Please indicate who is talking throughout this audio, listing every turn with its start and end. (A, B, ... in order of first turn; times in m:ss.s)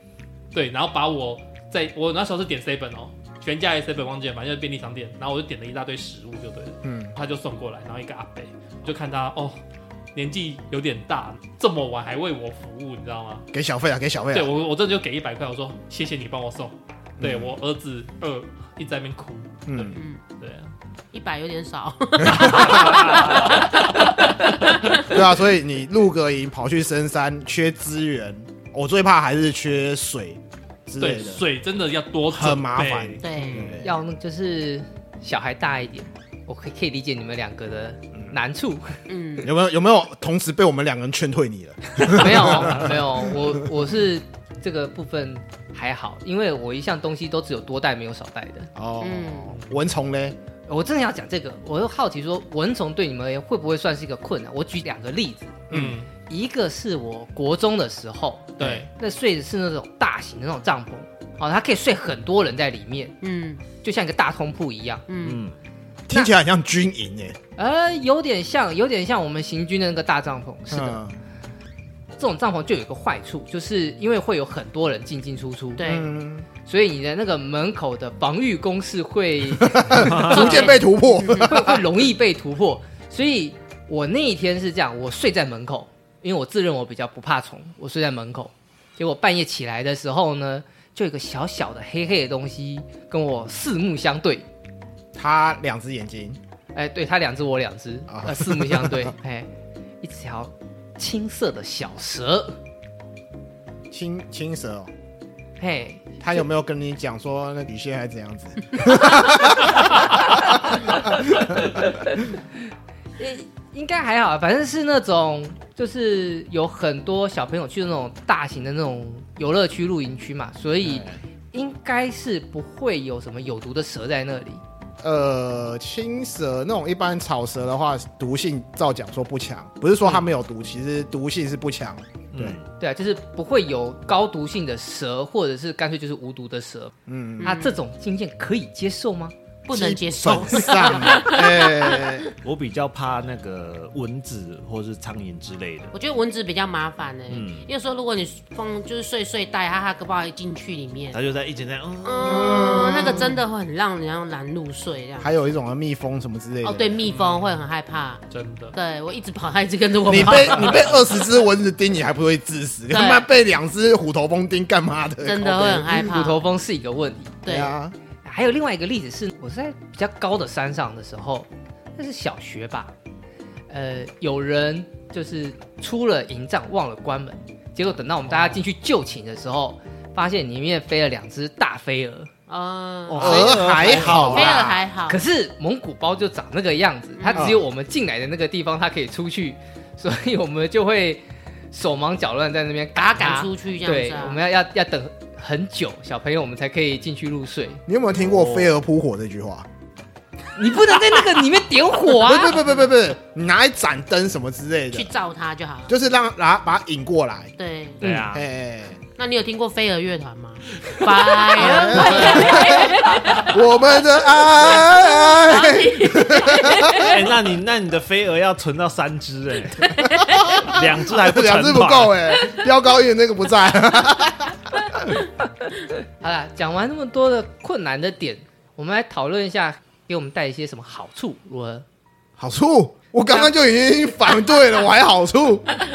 0:00.5-0:09.6 A
0:06.8-0:07.1 B
0:10.2-0:13.5 A
0:13.5-0:14.5 B
0:14.3-0:20.7 A
0:17.2-0:17.6 B
0:19.7-0:20.0 B
0:19.9-0:20.2 C
0:21.1-0:25.1 C
0:22.3-0:23.0 B
0:22.5-0:23.8 A
0:25.0-0:31.4 B
0:31.0-0:33.8 A
0:32.3-0:33.9 B
0:33.2-0:33.8 C
0:33.8-0:39.0 D
0:39.1-0:39.5 C
0:39.4-0:43.7 B
0:42.0-0:48.7 D
0:48.8-0:50.4 B
0:49.0-0:49.5 C
0:50.7-0:55.7 D
0:55.7-0:56.0 B
0:55.7-0:56.1 A
0:56.3-1:03.2 D
0:58.6-0:58.8 A
0:58.6-0:58.9 B
1:03.2-1:03.6 C
1:03.8-1:05.0 D
1:05.1-1:05.4 C
1:05.2-1:05.6 E
1:06.1-1:07.4 B
1:07.6-1:11.0 D
1:10.7-1:11.2 B
1:12.2-1:15.8 D
1:15.8-1:16.1 C
1:15.8-1:16.5 B
1:16.7-1:20.8 D
1:19.6-1:21.8 B
1:20.0-1:20.5 E
1:20.3-1:21.6 C
1:21.4-1:34.5 D
1:35.2-1:36.4 B
1:36.7-1:39.5 D
1:38.1-1:39.1 B
1:40.0-1:42.6 D
1:43.9-1:44.9 B
1:45.6-1:46.2 D
1:46.2-1:51.6 B
1:51.9-1:52.2 D
1:53.2-2:04.6 D
2:00.8-2:01.2 B
2:05.0-2:12.6 B
2:12.3-2:12.7 E
2:12.8-2:19.3 D
2:17.1-2:17.6 B
2:17.4-2:17.8 C
2:19.7-2:22.3 C
2:19.7-2:22.3 B
2:22.4-2:25.9 E
2:25.9-2:31.2 C
2:27.3-2:27.7 E
2:31.1-2:32.7 E
2:32.0-2:35.3 C
2:32.2-2:33.4 B
2:35.2-2:37.0 B
2:36.6-2:38.2 C
2:37.1-2:37.6 A
2:38.3-2:38.8 A
2:38.7-2:41.2 C
2:40.1-2:46.1 B
2:40.2-2:40.8 A
2:42.9-2:43.2 C
2:45.2-2:46.4 C
2:45.9-2:47.4 D
2:47.4-2:47.8 C
2:47.5-2:48.0 B
2:48.2-2:52.9 D
2:53.7-3:02.3 D
3:02.5-3:05.2 C
3:03.1-3:04.6 E
3:03.2-3:04.8 B
3:05.1-3:17.8 D
3:07.2-3:07.5 C
3:07.4-3:07.6 B
3:13.0-3:14.4 C
3:17.9-3:19.7 B
3:18.2-3:18.7 E
3:20.6-3:22.6 D
3:22.1-3:25.1 B
3:24.9-3:25.9 C
3:25.9-3:27.5 B
3:27.6-3:28.0 C
3:28.0-3:28.5 E
3:28.3-3:29.0 B
3:29.2-3:33.6 C
3:31.6-3:37.1 B
3:34.6-3:37.3 C
3:36.9-3:40.0 E
3:39.9-3:40.6 C
3:40.6-3:45.2 B
3:40.6-3:42.2 E
3:46.2-3:51.8 D
3:52.4-3:55.7 B